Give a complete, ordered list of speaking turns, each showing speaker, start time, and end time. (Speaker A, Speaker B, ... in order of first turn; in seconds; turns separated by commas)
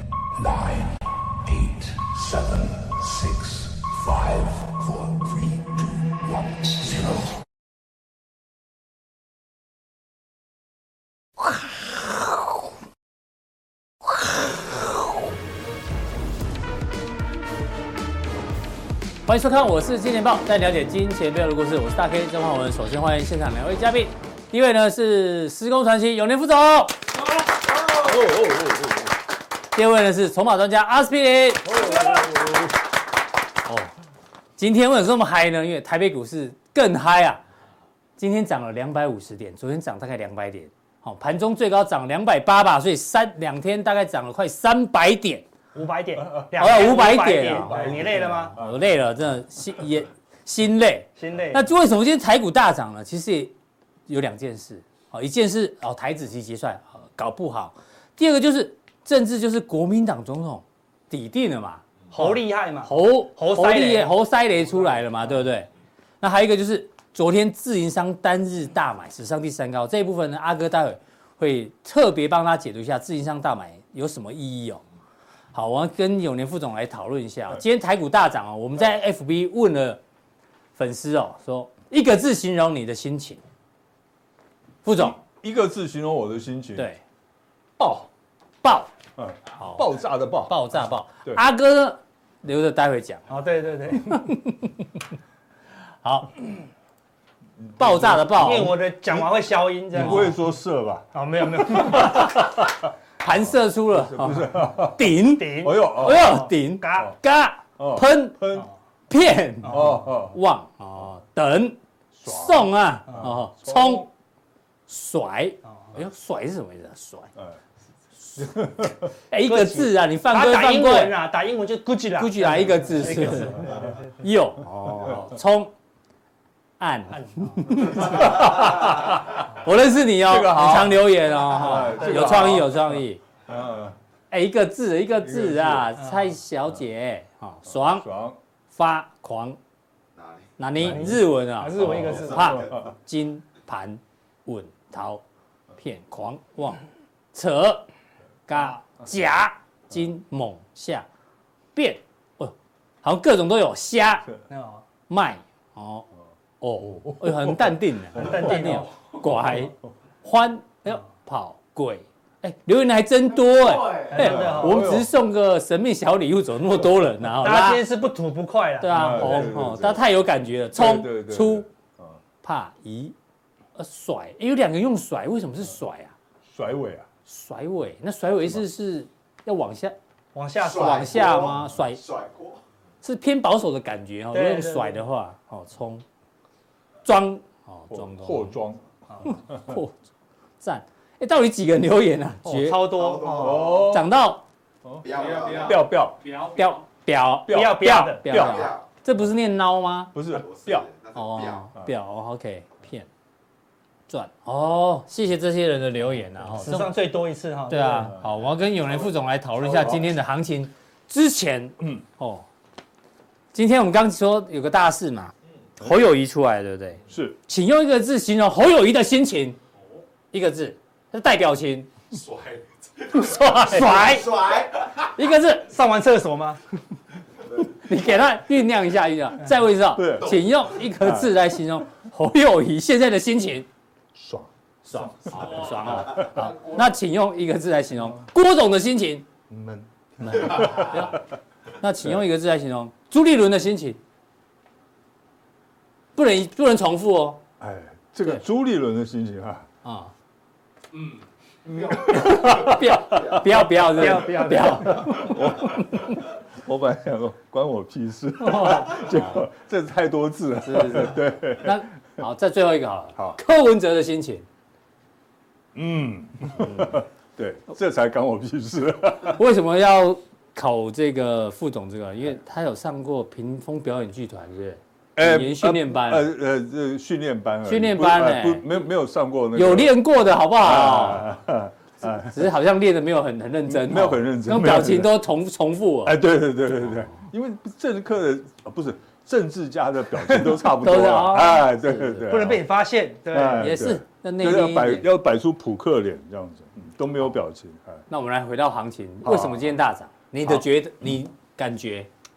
Speaker A: 1.5-5.9, Speaker B: 3.1-3.5, Speaker A: 6.7-7.0, Speaker C: 19.2-26.9, Speaker C: 29.7-32.2, Speaker B: 31.9-32.6, Speaker C: 33.6-33.9, Speaker C: 34.6-37.4, Speaker C: 38.2-45.5, Speaker D: 45.7-48.6, Speaker C: 46.5-53.5, Speaker B: 47.7-48.9, Speaker D: 51.2-51.6, Speaker C: 54.1-65.7, Speaker D: 62.1-64.1, Speaker C: 66.2-74.8, Speaker C: 75.5-80.0, Speaker C: 80.8-83.4, Speaker C: 84.8-85.2, Speaker B: 85.0-86.9, Speaker C: 86.8-87.0, Speaker B: 87.8-88.1, Speaker C: 88.6-88.9, Speaker B: 89.2-90.5, Speaker C: 89.5-93.3, Speaker D: 93.3-94.2, Speaker C: 94.1-94.7, Speaker C: 96.0-96.3, Speaker B: 97.6-99.3, Speaker C: 97.8-98.7, Speaker D: 98.3-100.4, Speaker B: 99.9-102.6, Speaker C: 100.0-100.3, Speaker D: 101.1-102.3, Speaker C: 103.2-108.6, Speaker B: 103.9-105.0, Speaker D: 105.1-107.1, Speaker B: 105.6-107.1, Speaker B: 107.8-108.7, Speaker C: 109.1-114.1, Speaker B: 109.7-110.4, Speaker B: 112.1-114.1, Speaker C: 114.9-117.3, Speaker B: 118.3-119.1, Speaker C: 119.3-121.1, Speaker D: 119.4-124.0, Speaker C: 122.1-125.7, Speaker C: 126.8-133.2, Speaker D: 127.2-128.1, Speaker B: 128.0-129.2, Speaker B: 130.2-133.9, Speaker C: 134.3-138.1, Speaker B: 135.2-135.9, Speaker D: 136.0-136.3, Speaker B: 137.7-138.4, Speaker C: 138.7-139.6, Speaker C: 140.6-145.2, Speaker D: 140.8-142.7, Speaker B: 140.8-141.2, Speaker B: 141.8-142.9, Speaker C: 145.8-146.8, Speaker C: 147.3-147.8, Speaker C: 148.5-151.1, Speaker C: 151.8-154.3, Speaker D: 154.5-154.8, Speaker C: 155.1-156.1, Speaker C: 156.6-167.8, Speaker B: 157.0-158.5, Speaker D: 158.1-158.9, Speaker E: 163.6-164.0, Speaker D: 164.0-165.0, Speaker B: 164.1-165.1, Speaker D: 167.4-169.6, Speaker C: 168.8-171.7, Speaker B: 168.9-170.0, Speaker B: 170.7-172.2, Speaker C: 172.4-173.1, Speaker C: 173.8-176.1, Speaker B: 176.5-177.1, Speaker C: 177.2-179.9, Speaker D: 180.3-181.4, Speaker C: 180.6-182.0, Speaker E: 180.9-182.6, Speaker C: 183.0-186.0, Speaker D: 184.3-185.0, Speaker C: 187.0-188.6, Speaker B: 187.9-189.8, Speaker C: 189.2-189.9, Speaker C: 190.6-193.2, Speaker D: 192.5-193.8, Speaker E: 193.0-193.8, Speaker B: 193.3-194.1, Speaker C: 193.8-194.4, Speaker B: 194.8-196.3, Speaker E: 195.0-195.9, Speaker C: 196.3-200.1, Speaker B: 197.5-198.7, Speaker D: 197.5-198.4, Speaker B: 200.1-200.9, Speaker E: 200.3-201.5, Speaker A: 200.4-201.1, Speaker C: 201.1-203.1, Speaker C: 204.1-206.9, Speaker D: 206.6-208.2, Speaker C: 207.7-212.4, Speaker C: 213.5-219.6, Speaker B: 217.1-217.4, Speaker C: 220.3-222.2, Speaker E: 222.3-222.6, Speaker C: 223.1-225.7, Speaker E: 223.1-224.5, Speaker D: 223.7-224.2, Speaker D: 225.6-226.6, Speaker C: 227.6-233.7, Speaker B: 229.9-231.3, Speaker B: 234.1-236.4, Speaker C: 234.9-239.2, Speaker B: 239.5-241.0, Speaker C: 240.2-241.2, Speaker C: 241.8-244.0, Speaker C: 246.1-247.4, Speaker B: 247.6-249.7, Speaker C: 249.8-250.1, Speaker B: 251.7-261.8, Speaker C: 251.9-256.1, Speaker D: 253.9-255.1, Speaker C: 258.4-259.4, Speaker C: 260.6-264.4, Speaker B: 265.7-269.4, Speaker C: 266.6-267.0, Speaker C: 269.3-276.3, Speaker B: 275.1-280.0, Speaker C: 277.7-278.6, Speaker C: 279.5-281.3, Speaker B: 280.6-282.5, Speaker C: 282.0-286.2, Speaker B: 283.7-285.2, Speaker B: 286.0-292.6, Speaker C: 290.4-292.3, Speaker D: 292.2-293.7, Speaker B: 293.3-298.0, Speaker C: 293.6-295.1, Speaker C: 298.1-302.1, Speaker B: 299.2-299.8